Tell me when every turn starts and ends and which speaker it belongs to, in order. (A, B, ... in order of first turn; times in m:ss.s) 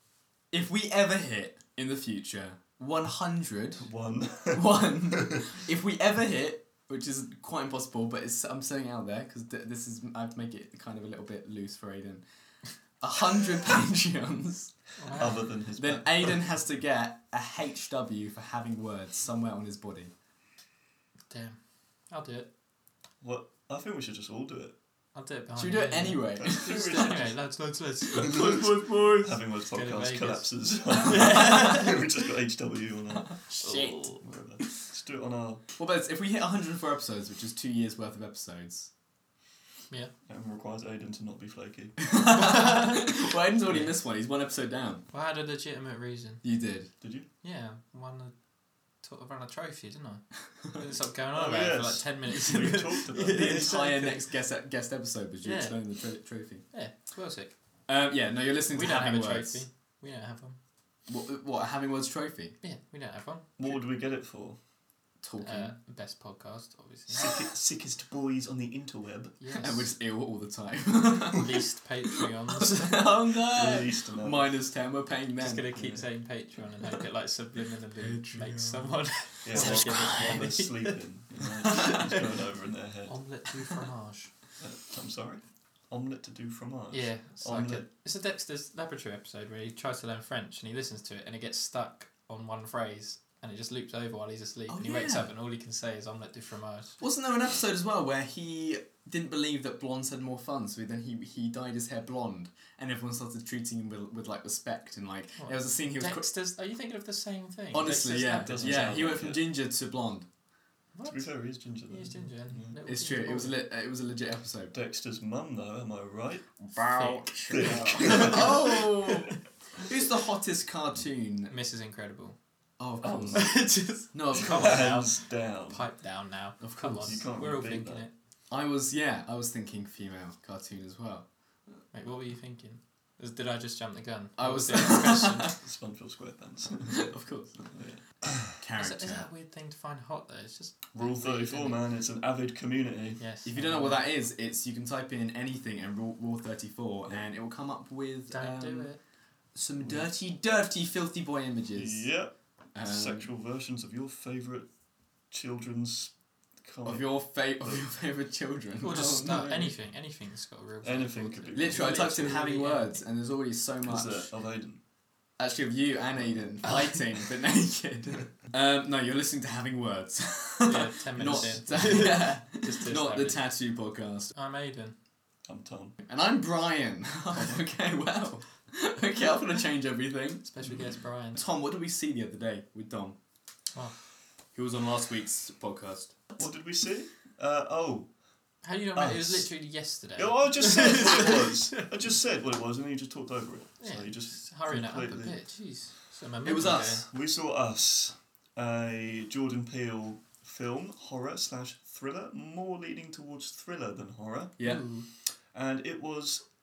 0:00.5-0:03.9 A
0:03.8-0:05.5 B
0:04.5-0:12.2 A
0:13.0-0:14.8 A
0:15.0-0:15.5 C
0:15.1-0:16.4 B
0:15.7-0:20.1 A
0:21.3-0:21.6 C
0:22.1-0:22.5 C
0:23.2-0:24.7 B
0:25.1-0:28.5 C
0:25.5-0:27.2 A
0:26.4-0:27.4 B
0:28.1-0:33.4 B
0:28.1-0:29.4 A
0:29.6-0:32.0 C
0:33.5-0:34.1 A
0:33.5-0:34.2 C
0:34.0-0:35.6 B
0:35.8-0:38.9 A
0:40.3-0:42.1 B
0:42.0-0:45.0 A
0:42.4-0:43.1 C
0:45.1-0:46.4 C
0:46.4-0:46.9 A
0:47.0-0:47.3 B
0:47.4-0:48.3 C
0:49.0-0:54.2 C
0:51.3-0:53.7 B
0:53.3-0:56.6 A
0:55.4-0:55.8 C
0:56.7-0:57.5 C
0:57.9-0:59.6 A
0:58.7-1:00.6 C
1:01.1-1:02.5 A
1:02.6-1:03.6 C
1:03.6-1:04.6 B
1:05.2-1:05.7 A
1:05.4-1:07.3 C
1:07.1-1:09.3 B
1:09.4-1:09.9 C
1:09.6-1:11.6 A
1:11.3-1:13.1 C
1:12.2-1:15.7 A
1:13.5-1:14.6 B
1:15.4-1:21.0 C
1:15.7-1:16.0 B
1:18.0-1:18.9 A
1:19.4-1:23.2 B
1:19.5-1:20.4 A
1:21.6-1:22.3 C
1:21.7-1:22.0 A
1:23.1-1:24.3 C
1:24.6-1:27.8 B
1:26.9-1:37.0 C
1:34.7-1:35.3 A
1:37.0-1:46.3 A
1:45.4-1:49.0 C
1:47.7-1:50.3 A
1:48.4-1:49.5 B
1:50.9-1:53.6 C
1:51.0-1:52.8 B
1:52.8-1:54.7 A
1:54.7-1:56.5 B
1:56.6-2:01.5 A
1:56.9-1:58.6 C
1:57.5-1:59.2 B
2:01.5-2:02.4 C
2:02.8-2:03.6 A
2:03.0-2:03.6 B
2:03.3-2:08.1 C
2:04.1-2:05.0 A
2:04.3-2:05.8 B
2:06.6-2:07.2 A
2:07.0-2:08.1 B
2:08.5-2:11.3 A
2:11.9-2:15.4 C
2:14.4-2:15.5 A
2:14.7-2:18.6 B
2:16.9-2:17.6 A
2:18.4-2:19.3 A
2:18.8-2:21.8 C
2:20.9-2:23.2 B
2:23.2-2:24.1 C
2:23.4-2:28.9 A
2:28.3-2:29.0 C
2:29.6-2:32.1 A
2:31.8-2:32.3 B
2:32.8-2:33.3 A
2:32.8-2:34.7 B
2:35.3-2:37.8 B
2:36.8-2:39.8 A
2:38.8-2:43.0 C
2:40.8-2:42.2 B
2:41.5-2:44.3 A
2:43.8-2:44.8 B
2:45.4-2:54.3 A
2:50.6-2:53.4 C
2:51.1-2:52.1 B
2:54.4-2:55.0 C
2:55.5-2:56.0 B
2:56.0-3:00.5 A
3:00.5-3:01.4 C
3:00.6-3:01.0 B
3:01.4-3:03.2 A
3:04.5-3:06.4 A
3:06.4-3:08.1 B
3:08.6-3:11.9 C
3:08.9-3:09.5 B
3:10.2-3:15.4 B
3:13.8-3:17.0 C
3:16.4-3:17.0 A
3:16.7-3:24.6 B
3:24.6-3:25.1 C
3:25.5-3:26.4 B